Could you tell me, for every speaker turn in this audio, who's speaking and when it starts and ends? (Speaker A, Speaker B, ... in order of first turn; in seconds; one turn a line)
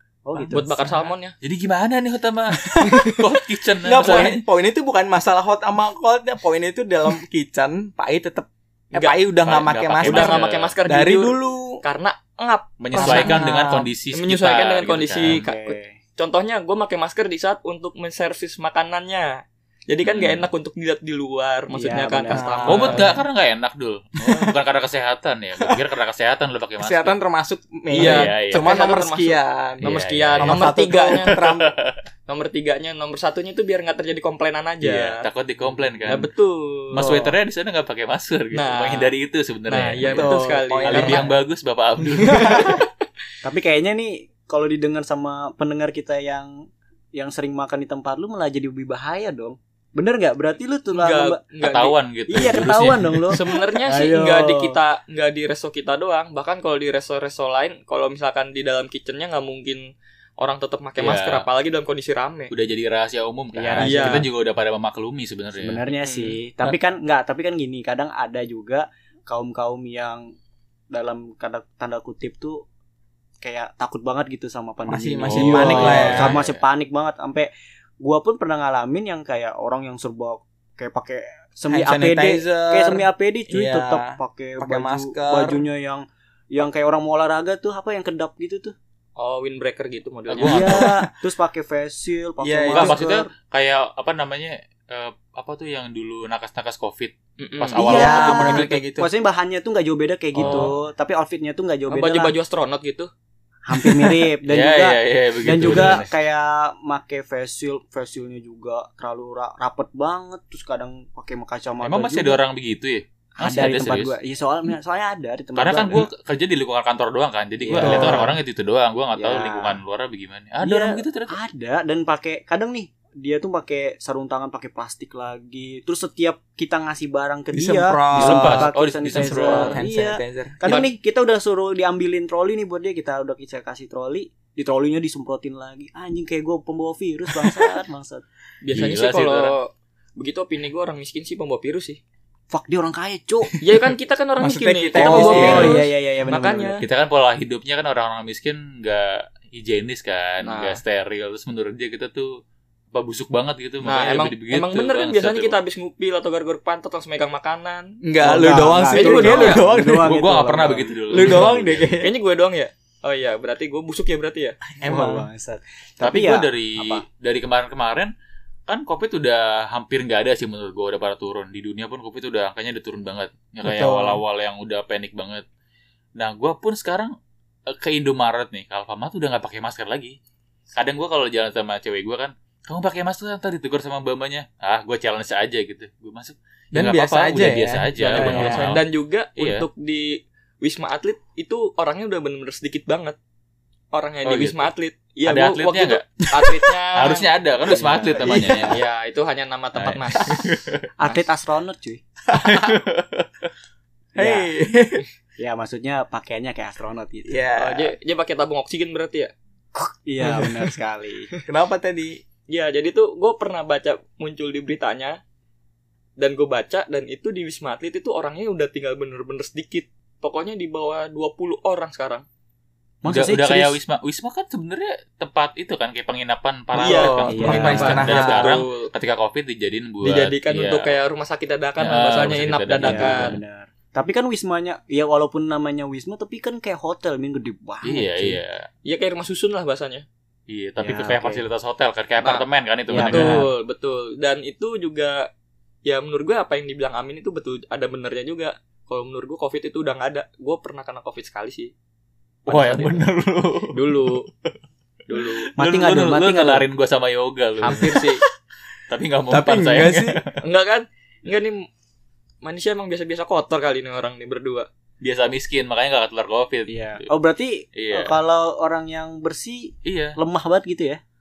Speaker A: 0.2-0.8
Speaker B: 0.3-0.9
Speaker C: 0.5-1.4
Speaker D: 1.4-4.4
Speaker B: 2.7-3.2
Speaker B: 3.8-11.8
Speaker D: 9.4-10.7
Speaker C: 10.0-13.4
Speaker D: 12.8-15.4
Speaker B: 12.9-13.9
Speaker C: 14.1-23.1
Speaker A: 15.2-16.0
Speaker D: 20.1-20.4
Speaker A: 21.7-23.2
Speaker B: 22.3-23.2
Speaker D: 22.7-27.2
Speaker B: 26.8-29.9
Speaker C: 27.9-31.4
Speaker D: 28.0-28.7
Speaker D: 29.8-30.7
Speaker B: 30.4-31.7
Speaker D: 31.2-32.0
Speaker C: 32.3-35.2
Speaker D: 34.8-36.3
Speaker C: 36.1-37.2
Speaker D: 36.9-40.3
Speaker C: 38.5-39.1
Speaker C: 39.7-41.3
Speaker B: 40.1-41.3
Speaker D: 40.9-42.8
Speaker C: 42.2-42.8
Speaker B: 42.4-42.7
Speaker A: 43.4-51.4
Speaker C: 50.9-52.0
Speaker D: 51.6-53.4
Speaker A: 52.3-54.8
Speaker C: 53.3-59.8
Speaker C: 60.4-62.5
Speaker D: 61.0-61.5
Speaker D: 62.5-65.8
Speaker A: 63.5-64.3
Speaker C: 63.8-64.3
Speaker A: 65.6-70.3
Speaker B: 66.0-66.8
Speaker A: 70.9-72.7
Speaker A: 73.4-88.8
Speaker B: 74.9-76.4
Speaker D: 75.3-76.6
Speaker B: 81.7-85.6
Speaker C: 89.2-90.8
Speaker D: 90.4-91.0
Speaker A: 90.4-93.3
Speaker B: 92.4-93.0
Speaker D: 92.7-98.7
Speaker C: 97.4-98.8
Speaker A: 97.8-102.3
Speaker B: 97.9-99.1
Speaker D: 100.3-100.8
Speaker C: 100.4-100.7
Speaker C: 101.9-103.1
Speaker A: 103.7-112.4
Speaker D: 104.4-106.1
Speaker D: 111.8-114.2
Speaker A: 113.4-116.1
Speaker D: 115.6-121.4
Speaker A: 117.6-118.4
Speaker B: 117.8-118.4
Speaker A: 119.2-119.8
Speaker A: 120.6-138.2
Speaker B: 127.5-130.6
Speaker D: 128.1-129.8
Speaker C: 130.6-130.9
Speaker C: 138.6-142.0
Speaker D: 138.7-139.6
Speaker A: 142.5-143.6
Speaker C: 143.6-146.8
Speaker B: 144.4-145.8
Speaker A: 145.0-146.8
Speaker D: 145.4-145.8
Speaker D: 146.8-152.4
Speaker C: 150.4-150.8
Speaker D: 152.9-155.6
Speaker C: 153.8-158.0
Speaker B: 158.0-160.2
Speaker A: 158.2-161.5
Speaker C: 158.9-159.7
Speaker D: 159.6-162.1
Speaker B: 161.1-162.1
Speaker C: 162.0-164.6
Speaker B: 164.8-165.3
Speaker A: 164.8-167.1
Speaker D: 166.0-168.1
Speaker D: 168.7-175.4
Speaker B: 173.6-174.2
Speaker D: 176.2-177.1
Speaker D: 177.7-180.2
Speaker D: 180.7-188.8
Speaker B: 186.7-188.7
Speaker C: 188.0-193.2
Speaker D: 189.4-189.7
Speaker C: 193.9-197.3
Speaker D: 194.3-194.7
Speaker D: 195.3-196.1
Speaker D: 197.0-198.8
Speaker A: 197.7-198.8
Speaker B: 198.2-198.6
Speaker C: 198.7-200.5
Speaker D: 199.8-200.8
Speaker A: 201.0-202.0
Speaker B: 202.3-202.8
Speaker D: 202.4-203.3
Speaker A: 204.2-204.5
Speaker B: 204.2-205.0
Speaker A: 205.4-207.4
Speaker B: 207.3-207.9
Speaker C: 207.6-209.3
Speaker A: 209.8-211.3
Speaker B: 210.2-210.6
Speaker B: 211.5-212.2
Speaker C: 212.5-215.2
Speaker C: 216.2-222.2
Speaker A: 223.0-223.8
Speaker D: 223.1-231.0
Speaker C: 226.8-228.9
Speaker B: 226.8-228.4
Speaker A: 227.3-228.5
Speaker C: 230.0-233.3
Speaker D: 231.8-233.4
Speaker A: 232.8-238.4
Speaker D: 237.8-238.7
Speaker C: 238.8-240.1
Speaker D: 240.5-243.5
Speaker A: 240.8-241.4
Speaker C: 242.2-245.3
Speaker A: 242.9-243.5
Speaker C: 245.8-251.7
Speaker C: 252.5-253.0
Speaker D: 252.5-254.5
Speaker C: 253.7-254.3
Speaker C: 255.1-255.5
Speaker D: 255.1-258.1
Speaker A: 255.6-256.7
Speaker C: 257.6-258.2
Speaker D: 258.9-260.4
Speaker B: 259.3-260.2
Speaker C: 260.4-261.7
Speaker C: 262.4-264.7
Speaker D: 265.0-267.1
Speaker A: 266.7-271.0
Speaker D: 267.7-268.2
Speaker D: 269.9-270.2